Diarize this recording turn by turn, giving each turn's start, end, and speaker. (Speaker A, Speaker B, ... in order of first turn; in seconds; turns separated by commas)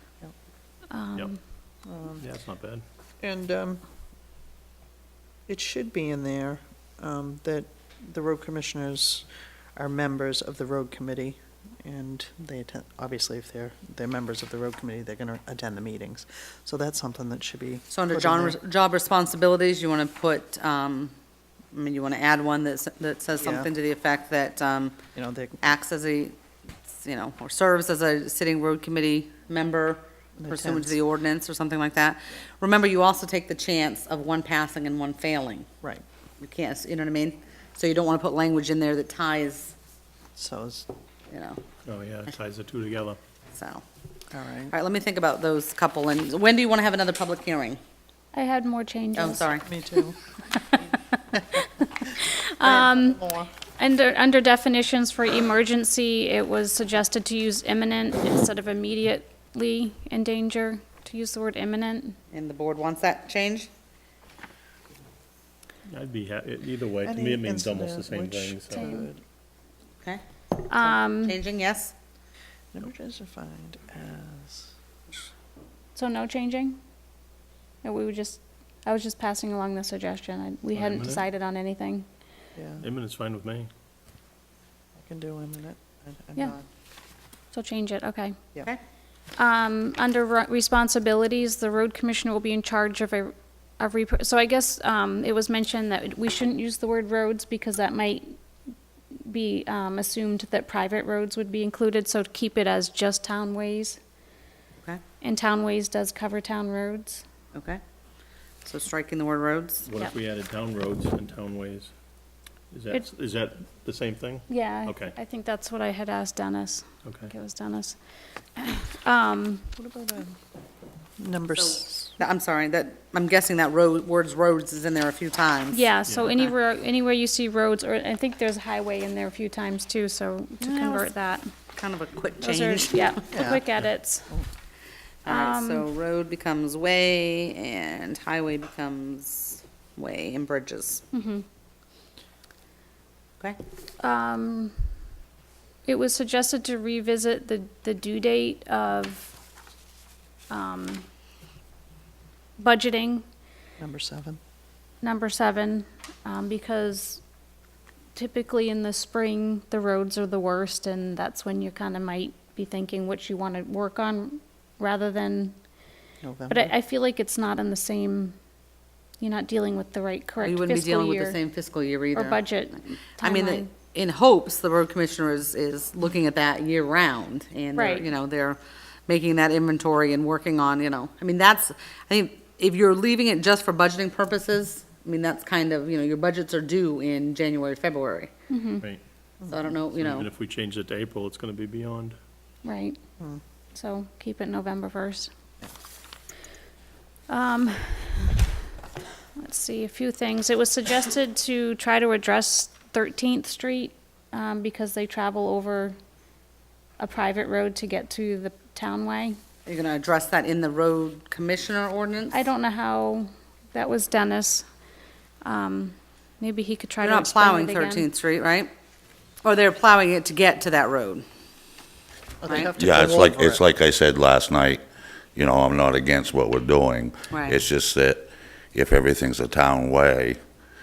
Speaker A: 0.9-1.4, Speaker B: 1.9-2.2, Speaker C: 2.2-2.8, Speaker B: 3.2-3.8, Speaker B: 5.5-18.6, Speaker D: 17.9-21.1, Speaker D: 21.7-25.0, Speaker B: 23.4-23.7, Speaker B: 25.1-25.6, Speaker D: 25.6-26.3, Speaker D: 26.9-35.7, Speaker B: 30.4-30.9, Speaker D: 36.4-39.7, Speaker B: 40.4-40.9, Speaker D: 41.3-41.6, Speaker C: 41.9-43.2, Speaker D: 43.5-43.8, Speaker B: 44.3-44.7, Speaker D: 44.7-47.8, Speaker A: 48.3-49.5, Speaker D: 49.1-49.6, Speaker B: 49.4-50.1, Speaker A: 50.5-53.2, Speaker B: 52.6-53.5, Speaker A: 53.8-62.2, Speaker D: 62.3-63.7, Speaker C: 65.9-68.8, Speaker B: 67.0-69.2, Speaker A: 68.8-69.1, Speaker A: 70.7-71.4, Speaker D: 70.8-71.9, Speaker B: 72.7-74.7, Speaker A: 75.9-76.8, Speaker A: 77.8-82.0, Speaker C: 80.7-81.2, Speaker B: 82.5-82.8, Speaker C: 82.8-83.7, Speaker B: 85.0-86.6, Speaker A: 87.5-88.3, Speaker A: 89.3-98.4, Speaker A: 99.1-104.0, Speaker A: 105.2-107.2, Speaker D: 107.5-107.8, Speaker D: 108.6-109.8, Speaker C: 109.8-111.9, Speaker C: 112.7-115.1, Speaker A: 114.5-118.0, Speaker C: 117.0-117.3, Speaker A: 118.5-119.7, Speaker B: 119.8-120.3, Speaker B: 121.2-122.2, Speaker D: 121.5-126.5, Speaker A: 125.7-131.5, Speaker B: 130.6-131.1, Speaker D: 131.7-133.2, Speaker A: 132.4-134.4, Speaker B: 133.3-133.7, Speaker D: 135.2-141.0, Speaker A: 135.3-135.8, Speaker A: 141.1-141.4, Speaker A: 144.0-144.7, Speaker A: 145.8-149.4, Speaker A: 150.5-151.0, Speaker A: 152.6-153.2, Speaker B: 153.8-154.4, Speaker A: 155.0-157.2, Speaker A: 158.1-165.6, Speaker B: 166.2-166.7, Speaker A: 166.5-168.3, Speaker A: 169.2-171.4, Speaker D: 170.4-172.5, Speaker A: 172.1-173.7, Speaker D: 173.2-188.3, Speaker A: 177.7-178.1, Speaker A: 188.5-188.8, Speaker B: 189.4-189.7, Speaker D: 189.5-190.3, Speaker C: 189.9-192.2, Speaker A: 192.6-193.0, Speaker A: 193.7-195.3, Speaker A: 197.3-198.3, Speaker A: 199.4-206.0, Speaker A: 207.0-209.4, Speaker D: 209.7-212.3, Speaker A: 212.3-214.7, Speaker A: 215.4-218.1, Speaker D: 217.0-218.7, Speaker D: 219.4-221.2, Speaker B: 222.4-223.6, Speaker D: 222.4-222.7, Speaker E: 222.7-224.8, Speaker E: 225.3-230.4, Speaker D: 227.3-227.6